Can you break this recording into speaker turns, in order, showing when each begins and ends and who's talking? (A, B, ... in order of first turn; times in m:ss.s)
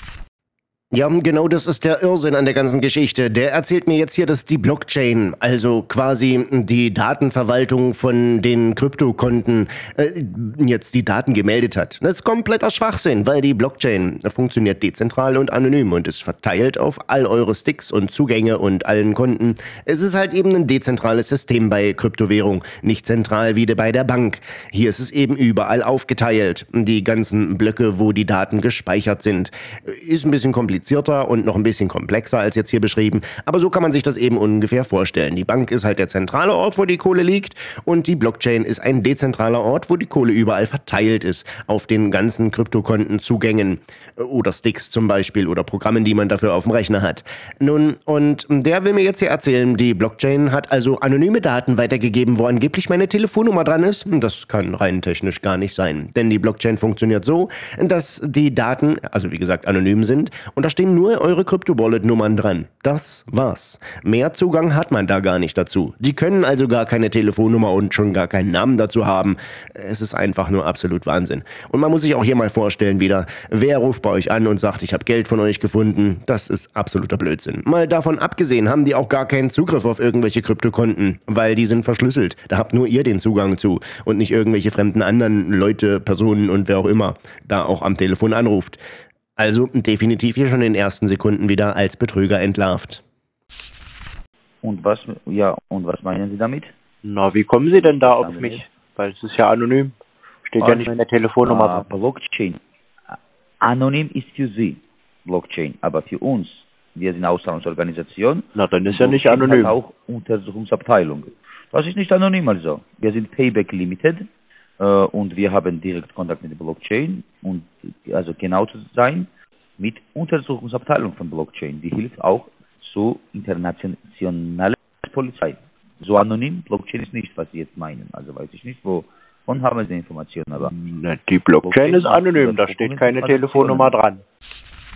0:00.9-1:28.8 A
1:29.4-1:33.0 A
1:34.6-1:36.7 B
1:37.0-1:41.8 C
1:37.8-1:38.7 B
1:40.6-1:40.9 B
1:41.4-1:54.3 B
1:48.5-1:49.8 C
1:54.8-1:59.3 B
1:59.8-2:10.7 B
2:10.6-2:14.2 C
2:11.6-2:14.0 B